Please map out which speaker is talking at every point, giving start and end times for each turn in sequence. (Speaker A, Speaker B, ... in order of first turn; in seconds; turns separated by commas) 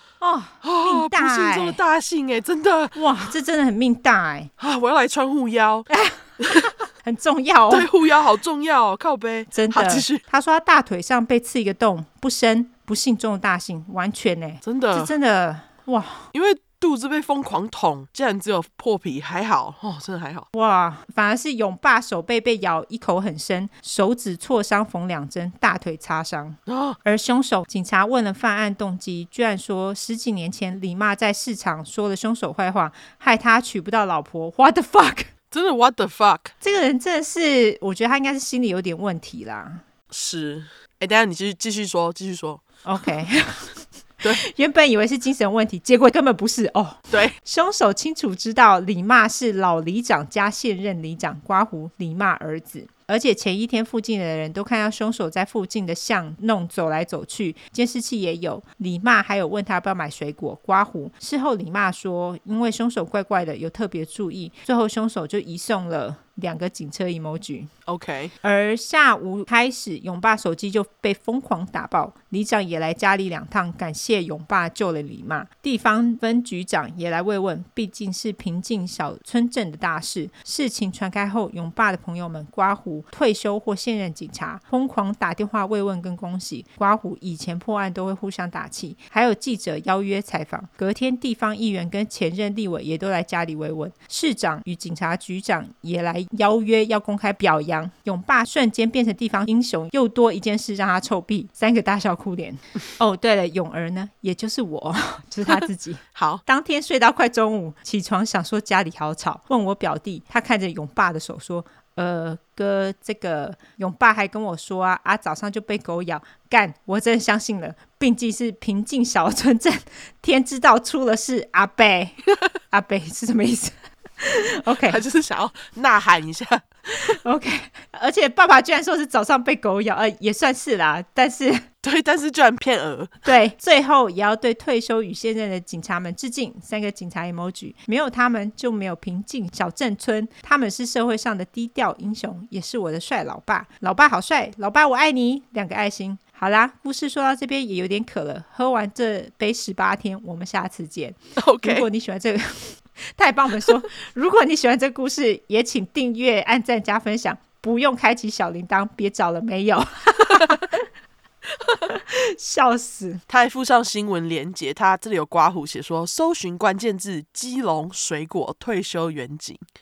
Speaker A: 0.2-1.8, Speaker B: 0.6-3.3, Speaker A: 2.9-4.5, Speaker B: 4.6-5.9, Speaker A: 5.9-6.3, Speaker B: 6.4-6.7, Speaker A: 7.0-7.9, Speaker B: 7.7-10.2, Speaker A: 9.5-16.3, Speaker B: 14.6-15.1, Speaker B: 16.3-20.4, Speaker A: 20.5-35.3, Speaker B: 26.7-27.0, Speaker B: 35.5-36.5, Speaker A: 36.6-39.8, Speaker B: 40.1-42.6, Speaker A: 42.8-67.7, Speaker B: 67.8-68.3, Speaker A: 68.4-125.0, Speaker B: 106.1-106.4, Speaker B: 124.8-126.6, Speaker A: 127.1-131.7, Speaker B: 131.8-133.2, Speaker A: 133.2-160.8, Speaker B: 151.3-151.9, Speaker A: 161.7-163.2, Speaker B: 163.3-169.6